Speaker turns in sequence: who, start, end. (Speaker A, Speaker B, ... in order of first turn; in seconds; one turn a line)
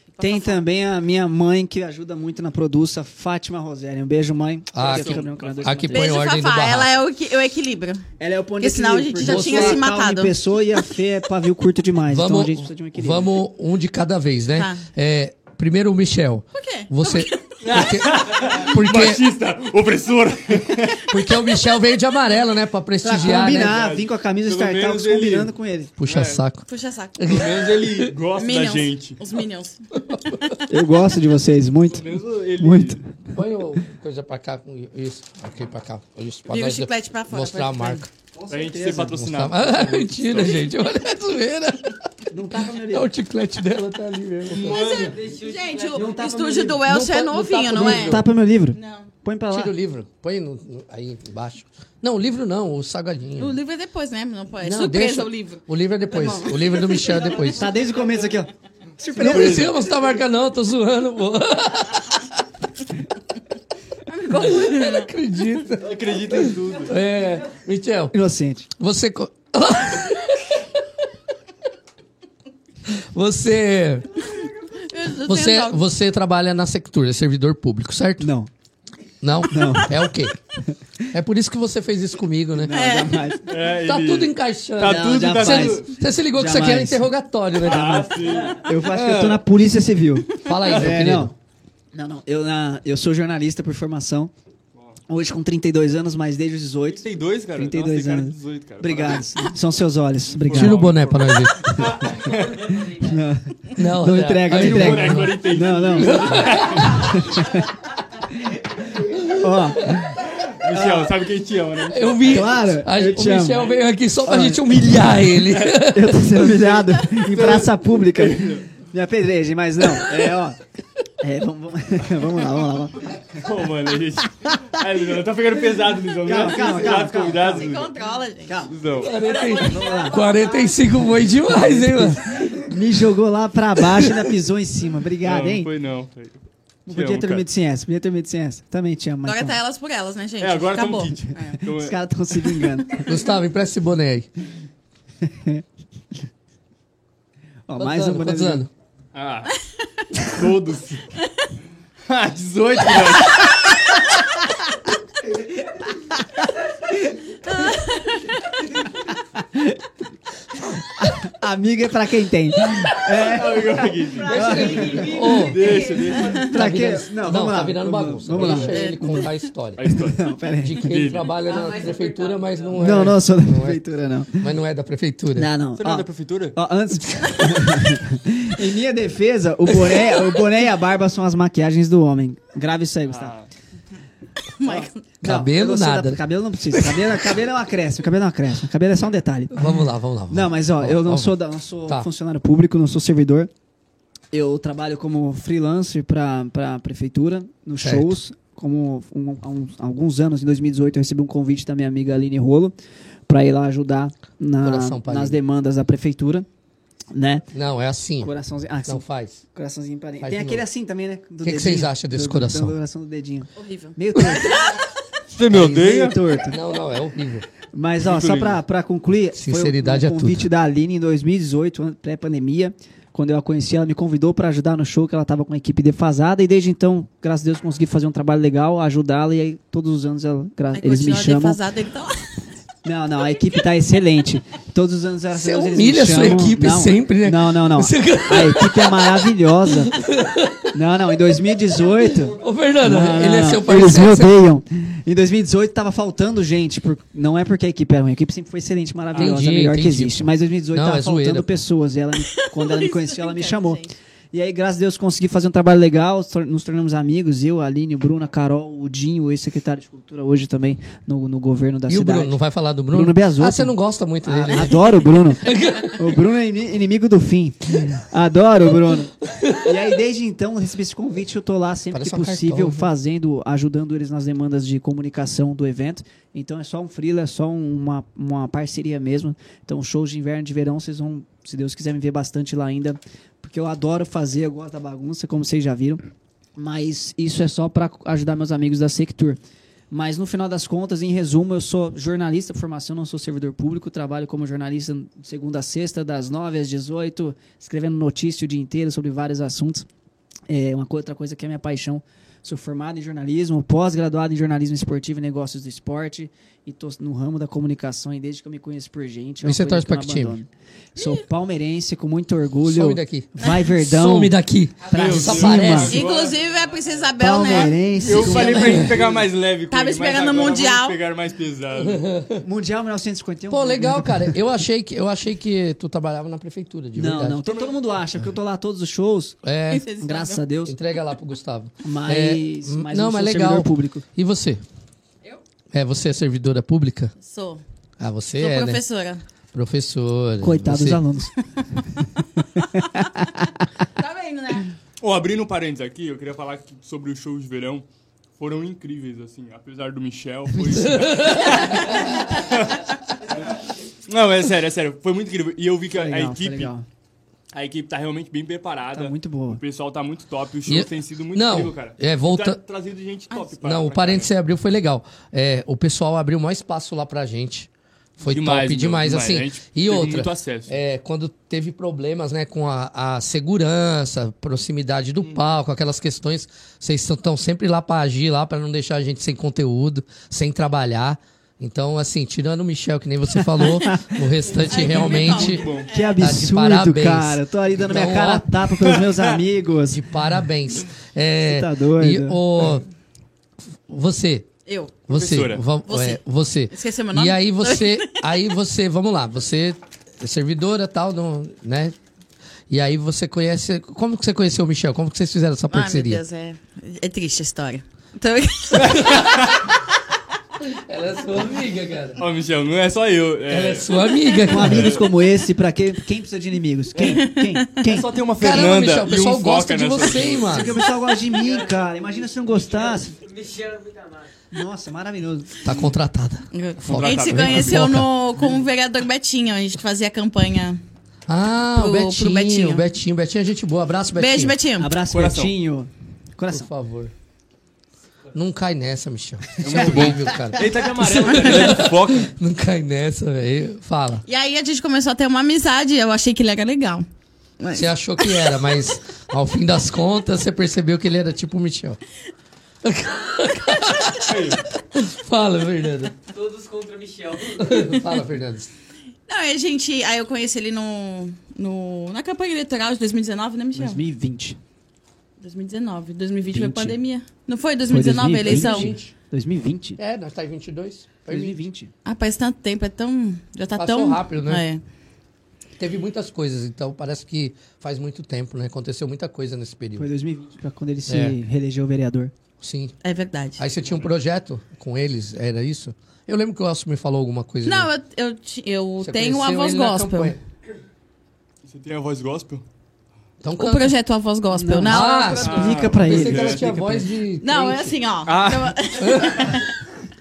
Speaker A: 0.1-0.7
Speaker B: 0.2-6.0
Speaker C: 4.7-6.9
Speaker D: 4.8-5.9
Speaker A: 5.9-8.0
Speaker B: 8.2-13.3
Speaker A: 8.6-10.8
Speaker C: 9.2-9.8
Speaker C: 12.1-19.2
Speaker A: 14.6-14.8
Speaker A: 16.5-17.6
Speaker D: 17.6-21.1
Speaker C: 21.1-23.8
Speaker B: 23.0-25.9
Speaker D: 23.2-26.4
Speaker C: 26.0-26.6
Speaker A: 26.6-27.5
Speaker C: 27.2-28.1
Speaker D: 27.3-29.2
Speaker A: 28.4-30.6
Speaker C: 29.9-30.6
Speaker B: 30.7-33.0
Speaker D: 31.9-33.0
Speaker C: 33.3-38.1
Speaker A: 36.5-38.0
Speaker B: 38.4-39.1
Speaker D: 38.5-40.6
Speaker C: 39.0-42.0
Speaker B: 42.3-43.1
Speaker C: 42.9-44.8
Speaker D: 44.5-45.2
Speaker A: 44.7-48.2
Speaker E: 44.9-46.9
Speaker C: 46.8-48.3
Speaker B: 47.7-49.7
Speaker A: 48.7-49.1
Speaker C: 49.5-53.6
Speaker A: 53.4-57.1
Speaker C: 54.6-57.8
Speaker E: 57.0-58.1
Speaker B: 57.5-59.7
Speaker D: 59.1-59.7
Speaker C: 59.2-62.3
Speaker A: 64.1-65.1
Speaker C: 64.4-68.2
Speaker D: 65.8-67.0
Speaker B: 68.1-68.7
Speaker C: 68.8-70.7
Speaker C: 72.9-74.2
Speaker A: 74.8-75.8
Speaker C: 75.2-78.3
Speaker B: 78.2-78.5
Speaker C: 79.2-80.3
Speaker B: 79.5-80.0
Speaker C: 81.1-82.7
Speaker B: 82.6-83.5
Speaker A: 82.7-83.3
Speaker D: 83.5-85.9
Speaker C: 83.8-88.2
Speaker B: 84.8-87.0
Speaker D: 87.6-89.4
Speaker B: 88.5-91.3
Speaker C: 90.4-91.3
Speaker D: 90.7-91.0
Speaker B: 91.9-94.3
Speaker B: 95.1-100.9
Speaker D: 96.9-99.4
Speaker D: 100.3-102.8
Speaker C: 100.5-101.6
Speaker B: 101.7-102.2
Speaker E: 102.7-102.9
Speaker B: 102.9-107.7
Speaker C: 103.8-105.4
Speaker D: 104.5-107.2
Speaker C: 106.0-107.0
Speaker C: 109.0-110.0
Speaker B: 109.3-111.1
Speaker D: 110.2-112.4
Speaker C: 111.9-116.2
Speaker B: 112.2-113.7
Speaker B: 114.2-114.9
Speaker D: 115.4-118.7
Speaker B: 115.9-120.6
Speaker C: 119.9-120.2
Speaker B: 121.2-123.1
Speaker D: 123.3-127.9
Speaker B: 126.2-128.0
Speaker A: 127.4-128.6
Speaker B: 128.5-128.7
Speaker D: 128.7-129.2
Speaker C: 129.0-132.7
Speaker E: 129.3-130.7
Speaker B: 129.5-130.2
Speaker B: 131.9-135.7
Speaker C: 133.8-134.3
Speaker D: 135.2-137.5
Speaker B: 136.9-139.6
Speaker A: 139.2-141.6
Speaker D: 140.4-142.0
Speaker B: 141.8-143.2
Speaker C: 143.0-144.3
Speaker B: 145.2-145.6
Speaker B: 147.7-148.7
Speaker C: 147.8-148.7
Speaker D: 149.1-149.5
Speaker D: 150.2-151.1
Speaker D: 152.1-153.6
Speaker A: 157.4-158.7
Speaker B: 159.4-159.8
Speaker B: 160.8-165.2
Speaker D: 163.0-166.5
Speaker E: 164.1-166.2
Speaker C: 164.3-165.8
Speaker A: 165.7-166.5
Speaker B: 166.4-169.3
Speaker C: 166.5-169.8
Speaker A: 168.4-169.3
Speaker D: 169.8-170.3
Speaker B: 169.9-170.9
Speaker C: 170.6-173.8
Speaker D: 170.8-171.3
Speaker E: 171.4-173.1
Speaker B: 172.7-174.5
Speaker C: 174.3-175.5
Speaker B: 175.4-183.3
Speaker D: 175.8-176.6
Speaker D: 183.1-183.5
Speaker A: 184.6-184.9
Speaker B: 184.6-189.7
Speaker C: 185.2-186.2
Speaker C: 189.5-191.3
Speaker B: 190.3-193.5
Speaker B: 194.3-202.7
Speaker C: 197.8-198.2
Speaker B: 203.3-206.5
Speaker C: 204.6-205.4
Speaker B: 207.1-207.5
Speaker C: 207.5-208.3
Speaker B: 208.2-214.6
Speaker C: 208.9-209.4
Speaker C: 210.2-210.7
Speaker C: 211.4-212.8
Speaker A: 213.6-214.8
Speaker D: 215.3-216.2
Speaker B: 215.5-216.6
Speaker C: 216.5-217.5
Speaker B: 217.7-231.6
Speaker D: 218.0-218.6
Speaker C: 219.3-220.5
Speaker A: 230.7-232.4
Speaker B: 232.8-240.0
Speaker C: 235.3-239.4
Speaker C: 239.9-240.7
Speaker B: 240.7-262.4
Speaker E: 242.0-242.4
Speaker C: 242.2-244.3
Speaker D: 249.1-249.4
Speaker C: 249.2-251.5
Speaker A: 252.2-253.9
Speaker C: 261.9-264.8
Speaker B: 262.9-263.7
Speaker B: 264.2-286.1
Speaker C: 265.4-266.2
Speaker C: 269.2-269.8
Speaker C: 271.9-272.9
Speaker B: 286.6-289.4
Speaker B: 289.9-299.9
Speaker B: 300.5-314.4
Speaker C: 309.4-310.4
Speaker C: 312.6-316.0
Speaker E: 314.8-315.1
Speaker B: 314.9-316.0
Speaker D: 314.9-316.4
Speaker A: 315.9-319.0
Speaker E: 316.0-317.2
Speaker B: 317.2-319.2
Speaker D: 318.0-322.1
Speaker A: 319.7-321.0
Speaker C: 321.8-322.4
Speaker B: 322.4-324.4
Speaker C: 323.5-327.4
Speaker B: 326.9-329.4
Speaker D: 327.5-327.8
Speaker C: 329.4-329.9
Speaker A: 329.7-330.4
Speaker B: 330.0-330.8
Speaker C: 330.6-334.6
Speaker B: 331.8-334.0
Speaker C: 335.7-337.1
Speaker A: 337.2-337.6
Speaker C: 338.0-338.8
Speaker A: 338.4-339.2
Speaker C: 339.5-341.0
Speaker B: 340.4-341.3
Speaker B: 342.8-343.4
Speaker A: 344.0-344.7
Speaker D: 345.0-347.9
Speaker D: 348.4-352.9
Speaker C: 350.8-351.6
Speaker D: 354.1-356.7
Speaker B: 355.9-356.9
Speaker D: 357.5-364.3
Speaker B: 358.9-359.6
Speaker C: 360.7-362.6
Speaker C: 363.6-385.6
Speaker D: 368.2-370.8
Speaker D: 384.6-385.9
Speaker A: 384.7-386.3
Speaker B: 385.9-390.0
Speaker C: 386.2-388.5
Speaker D: 388.8-389.4
Speaker C: 389.9-392.9
Speaker B: 391.4-392.4
Speaker C: 393.9-394.5
Speaker A: 394.7-394.9
Speaker C: 395.1-401.9
Speaker D: 395.1-395.6
Speaker A: 395.9-398.2
Speaker C: 402.7-406.2
Speaker A: 405.7-409.3
Speaker D: 408.7-409.6
Speaker C: 409.0-409.4
Speaker C: 410.6-412.2
Speaker D: 412.2-413.9
Speaker C: 413.5-414.9
Speaker D: 414.4-415.1
Speaker B: 414.5-418.1
Speaker D: 416.9-420.6
Speaker A: 417.0-417.8
Speaker C: 418.4-420.8
Speaker B: 420.4-423.1
Speaker E: 421.1-424.3
Speaker B: 424.5-425.6
Speaker C: 425.6-428.1
Speaker A: 426.5-430.8
Speaker D: 426.9-428.5
Speaker C: 431.3-434.6
Speaker A: 431.7-432.8
Speaker A: 434.1-435.0
Speaker B: 434.8-436.7
Speaker D: 435.1-435.5
Speaker C: 436.5-437.1
Speaker C: 438.3-444.2
Speaker D: 439.6-442.3
Speaker B: 439.6-440.6
Speaker A: 444.3-447.1
Speaker A: 447.6-448.6
Speaker C: 447.7-452.0
Speaker C: 452.8-456.1
Speaker D: 454.2-454.6
Speaker E: 456.3-457.9
Speaker C: 457.6-458.7
Speaker A: 459.3-464.0
Speaker B: 463.8-464.6
Speaker A: 465.4-468.9
Speaker B: 466.5-467.0
Speaker B: 467.9-470.0
Speaker C: 468.5-469.1
Speaker C: 470.0-471.6
Speaker B: 471.3-471.9
Speaker A: 472.1-474.8
Speaker C: 473.8-474.7
Speaker C: 475.8-480.1
Speaker B: 480.0-482.3
Speaker C: 481.1-481.4
Speaker C: 482.6-482.9
Speaker A: 483.0-483.6
Speaker C: 483.6-487.9
Speaker A: 487.6-490.4
Speaker C: 489.0-490.4
Speaker D: 491.6-492.6
Speaker C: 493.4-493.9
Speaker A: 493.6-495.7
Speaker B: 494.5-497.1
Speaker C: 494.9-498.0
Speaker D: 495.4-496.7
Speaker A: 497.4-499.7
Speaker D: 498.2-498.8
Speaker C: 499.0-499.7